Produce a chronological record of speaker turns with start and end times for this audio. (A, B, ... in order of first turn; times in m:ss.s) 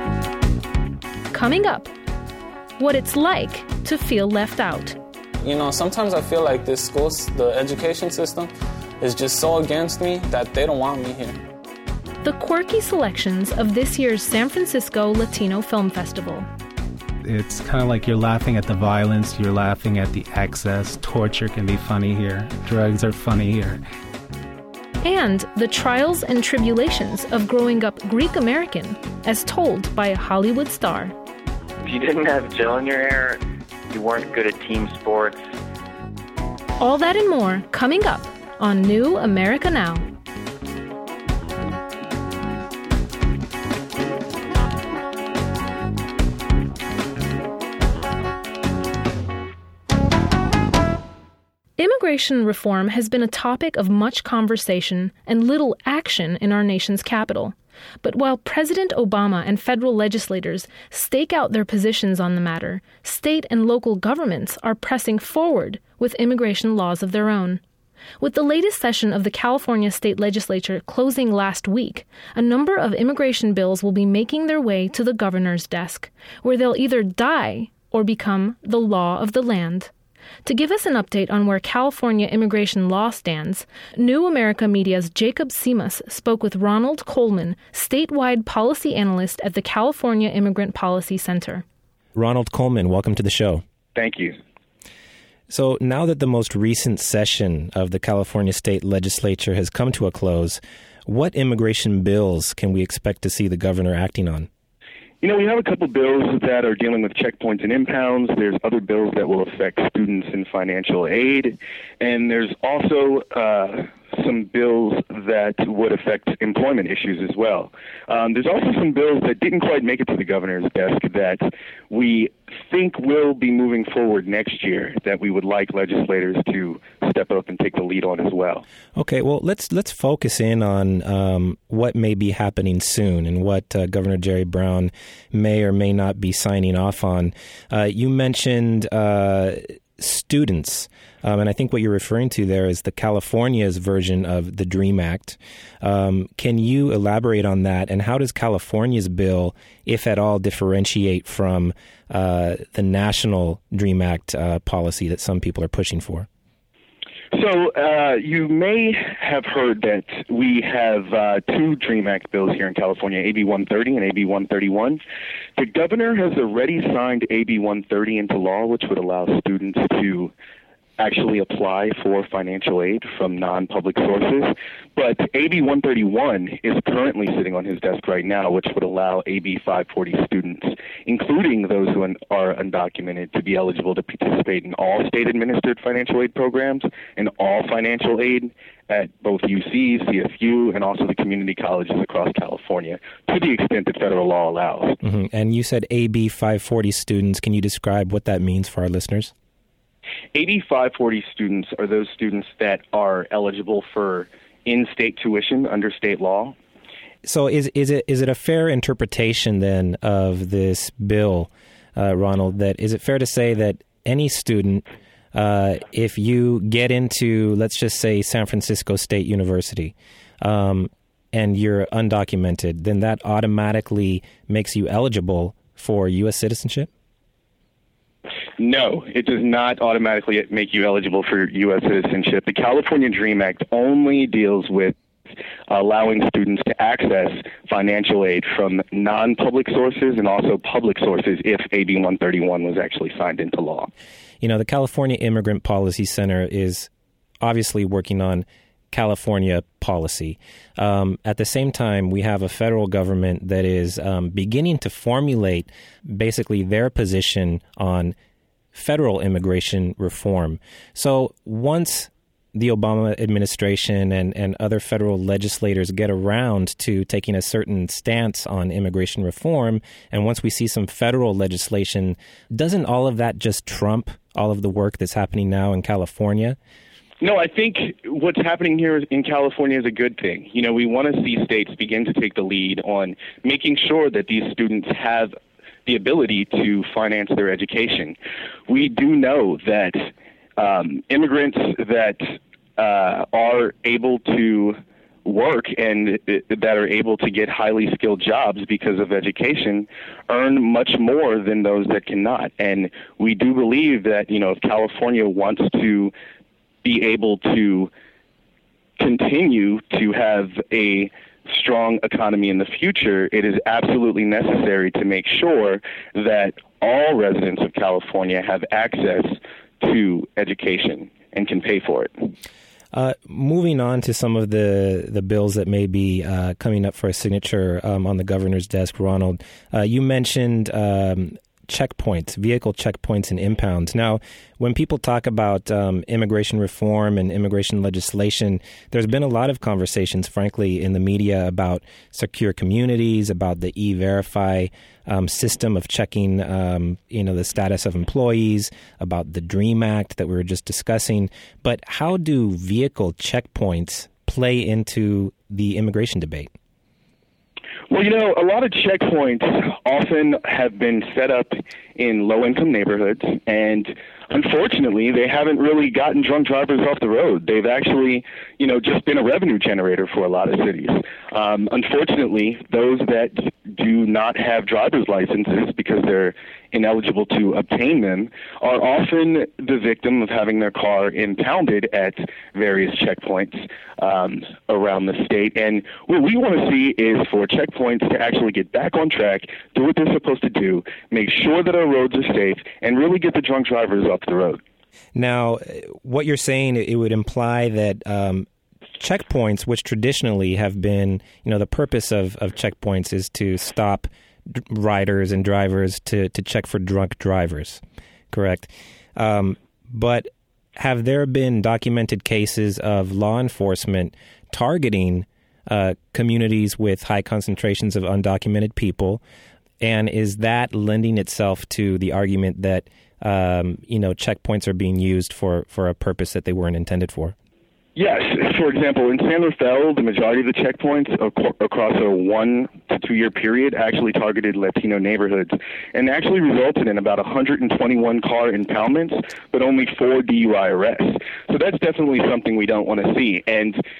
0:01.3-0:01.9 A
0:02.8-0:05.0 A
0:05.4-0:11.4 B
0:12.2-0:16.5 A
0:17.2-0:23.8 C
0:25.0-0:31.2 A
0:31.8-0:35.4 D
0:36.8-0:40.1 A
0:51.8-1:07.6 A
1:08.2-1:19.9 A
1:20.4-1:31.6 A
1:32.2-1:33.6 E
1:34.0-1:34.4 F
1:35.5-1:44.5 E
1:45.2-2:08.6 F
2:09.0-2:36.3 E
2:37.3-2:45.0 F
2:45.6-2:50.3 F
2:51.0-3:15.0 F
3:15.0-3:19.3 E
3:20.3-3:26.6 F
3:27.2-3:46.9 E
3:48.6-3:55.0 F
3:55.7-4:03.9 F
4:04.4-4:06.9 E
4:07.4-4:18.2 E
4:18.7-4:36.6 E
4:37.2-4:48.2 F
4:48.7-5:06.1 F
5:06.8-5:07.9 F
5:09.0-5:22.3 F
5:22.9-5:56.5 E
5:57.9-6:34.6 F
6:35.2-6:38.5 E
6:39.0-6:47.8 E
6:48.3-6:59.2 E
6:59.8-7:07.4 E
7:08.0-7:23.8 F